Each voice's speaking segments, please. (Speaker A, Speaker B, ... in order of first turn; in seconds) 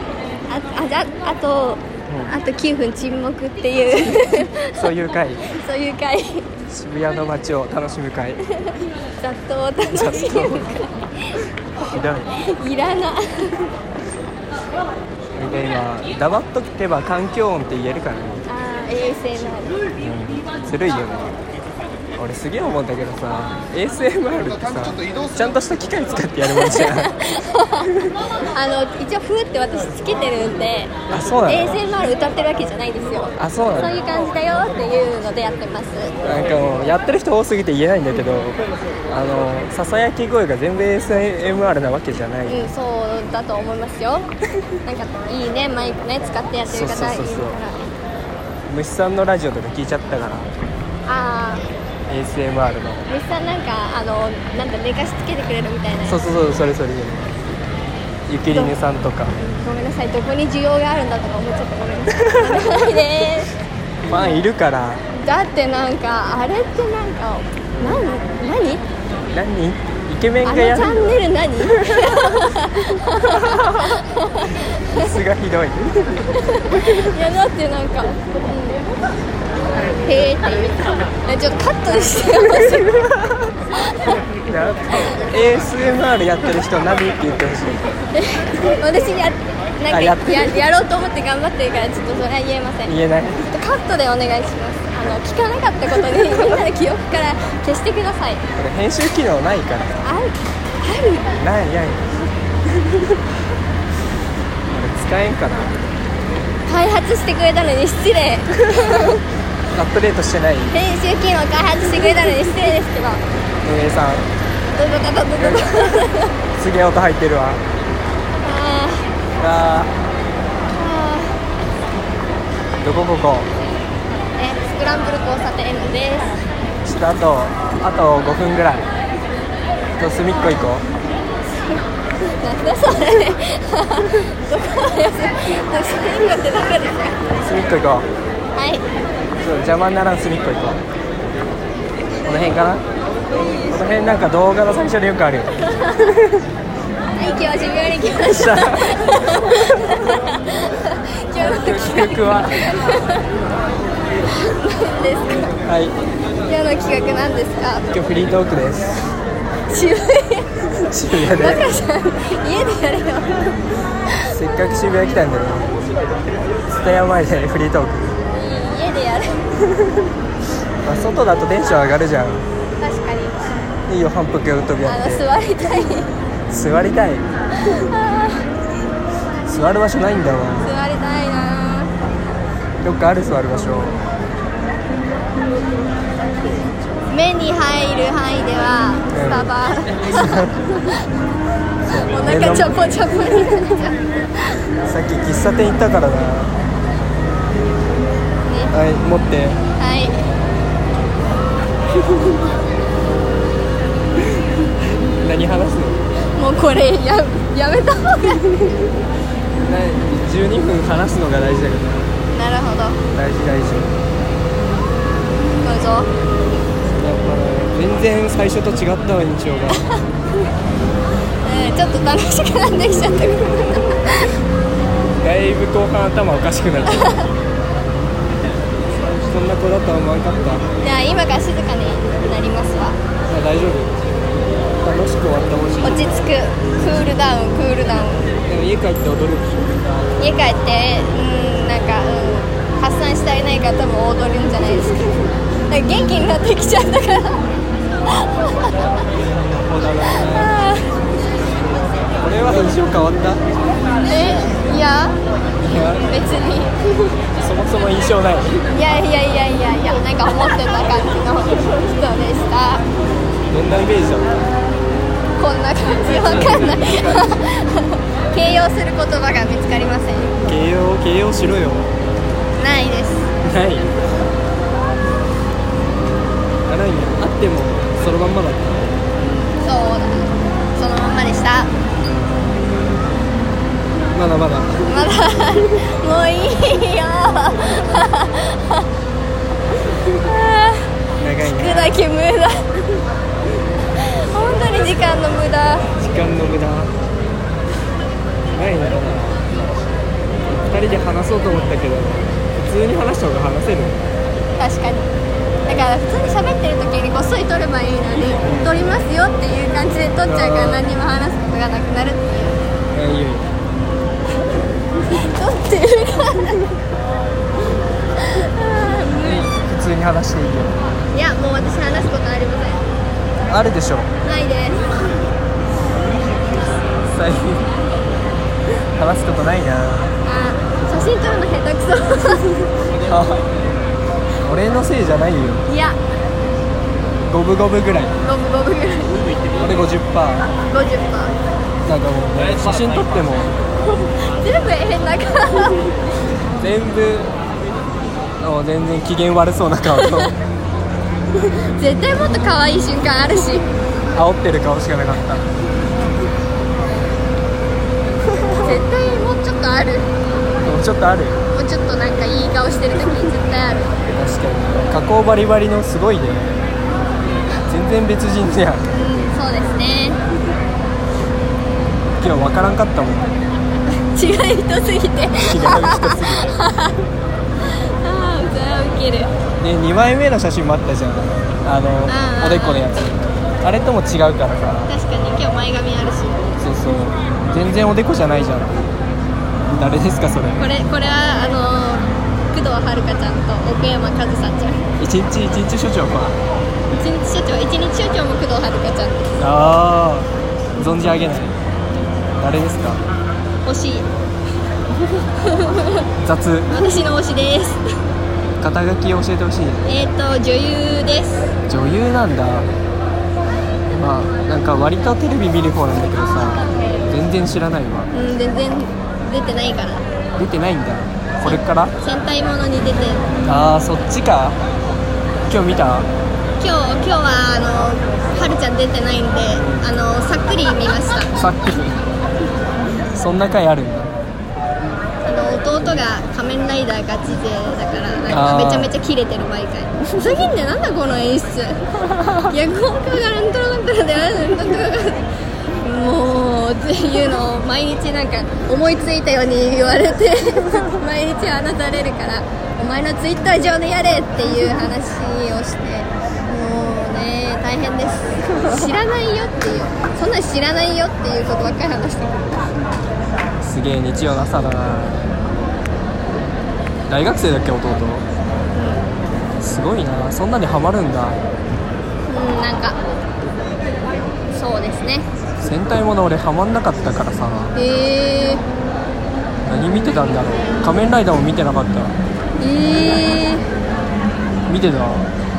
Speaker A: 0.5-4.9, 5.5-6.5, 8.7-11.1, 12.4-13.7, 18.5-19.8, 26.5-30.9, 31.4-36.1, 42.5-44.3, 44.8-47.8, 51.1-51.7, 53.1-56.2, 58.5-58.8, 59.4-63.5, 65.1-68.8, 70.4-75.1, 76.3-78.9, 79.8-83.0, 83.9-84.2, 88.1-98.4, 100.0-101.4, 106.7-109.2, 110.7-113.2, 114.7-116.3, 118.4-119.1, 120.7-121.4, 124.4-126.4, 130.3-130.7, 131.5-137.3, 138.6-138.9, 147.1-153.3, 154.3-155.6, 156.4-157.9, 159.7-163.6, 168.3-169.4, 172.8-173.6, 174.8-176.1, 177.6-178.5, 180.6-181.9, 187.1-190.5, 192.1-194.0, 198.4-198.7, 199.8-200.2, 206.2-208.8, 212.3-213.0, 215.6-216.1, 221.4-224.3, 226.9-227.3, 230.8-233.0, 235.8-238.3, 240.2-247.5, 248.0-249.0, 250.0-251.0, 254.0-255.2, 256.0-257.1, 258.6-262.8, 265.4-270.4, 272.6-273.3, 279.6-281.7, 284.8-288.9, 290.0-293.0, 293.9-295.9, 304.6-305.1, 305.6-312.6, 315.1-316.8, 318.1-319.5, 321.1-322.9, 324.2-324.9, 330.2-332.8, 335.7-336.0, 338.2-339.3, 340.7-341.4, 344.0-346.0, 350.0-350.3, 351.5-353.7, 358.6-360.1, 361.5-364.0, 368.9-370.2, 373.9-377.0, 377.6-379.3, 382.1-382.9, 384.9-386.5, 390.6-394.9, 396.9-399.4, 403.6-404.1, 405.3-406.1, 406.7-407.8, 409.8-411.5, 418.1-420.1, 421.4-423.2, 426.6-431.3, 435.2-445.3, 445.8-462.6, 468.7-469.2, 472.3-473.0, 474.5-475.3, 477.7-478.6, 482.6-483.7
Speaker B: 2.1-2.3, 4.7-5.5, 6.6-8.4, 9.9-10.6, 11.8-12.4, 15.3-18.5, 20.0-21.4, 22.2-27.2, 31.1-31.8, 33.4-34.0, 36.2-42.7, 46.7-47.6, 48.7-50.5, 52.1-53.0, 56.0-57.3, 58.3-59.4, 62.1-62.8, 64.0-65.0, 67.8-68.1, 69.3-71.1, 71.9-72.3, 73.3-73.8, 74.9-77.1, 83.0-83.4, 84.5-87.8, 89.9-90.6, 92.8-93.4, 98.5-100.0, 101.3-102.1, 104.7-105.8, 109.7-110.8, 113.6-114.3, 115.4-117.6, 119.3-119.9, 122.8-123.5, 126.8-128.9, 130.0-130.8, 137.3-138.1, 139.4-140.8, 142.2-142.8, 143.7-146.4, 148.2-149.0, 151.4-152.9, 155.6-155.9, 157.9-159.1, 160.8-161.7, 164.2-165.7, 166.7-168.2, 169.8-170.1, 170.8-172.4, 173.9-175.3, 176.5-177.2, 179.5-180.7, 182.8-184.0, 189.1-189.5, 190.2-190.6, 191.8-192.8, 194.8-196.5, 198.7-199.6, 205.2-206.0, 209.6-212.1, 213.1-213.9, 216.8-219.9, 225.2-227.3, 228.9-230.6, 233.3-233.9, 234.8-236.1, 238.4-239.9, 249.5-250.5, 252.2-253.4, 255.6-256.1, 257.4-258.6, 263.5-264.4, 270.4-271.9, 273.4-273.9, 276.7-279.0, 284.1-284.8, 291.2-292.0, 296.0-296.9, 298.5-299.5, 300.4-304.0, 308.4-308.9, 310.2-310.9, 312.9-313.5, 319.2-320.8, 323.5-324.1, 327.0-327.7, 328.9-330.1, 333.0-333.5, 334.4-335.6, 337.3-338.1, 339.6-340.5, 341.8-343.5, 346.6-347.3, 348.4-350.4, 354.1-355.5, 360.6-361.4, 364.1-366.5, 367.6-368.9, 372.2-373.4, 375.4-376.6, 379.6-384.9, 386.6-388.9, 389.7-390.6, 395.0-396.4, 399.4-401.6, 402.4-403.0, 406.2-406.8, 408.6-409.9, 411.7-412.7, 413.9-418.1, 420.3-421.9, 423.4-424.6, 425.5-426.1, 429.5-429.9, 431.4-432.0, 433.1-434.1, 438.3-438.9, 463.6-465.2, 467.1-468.2, 469.6-471.4, 475.6-477.7, 479.6-482.1, 484.7-485.3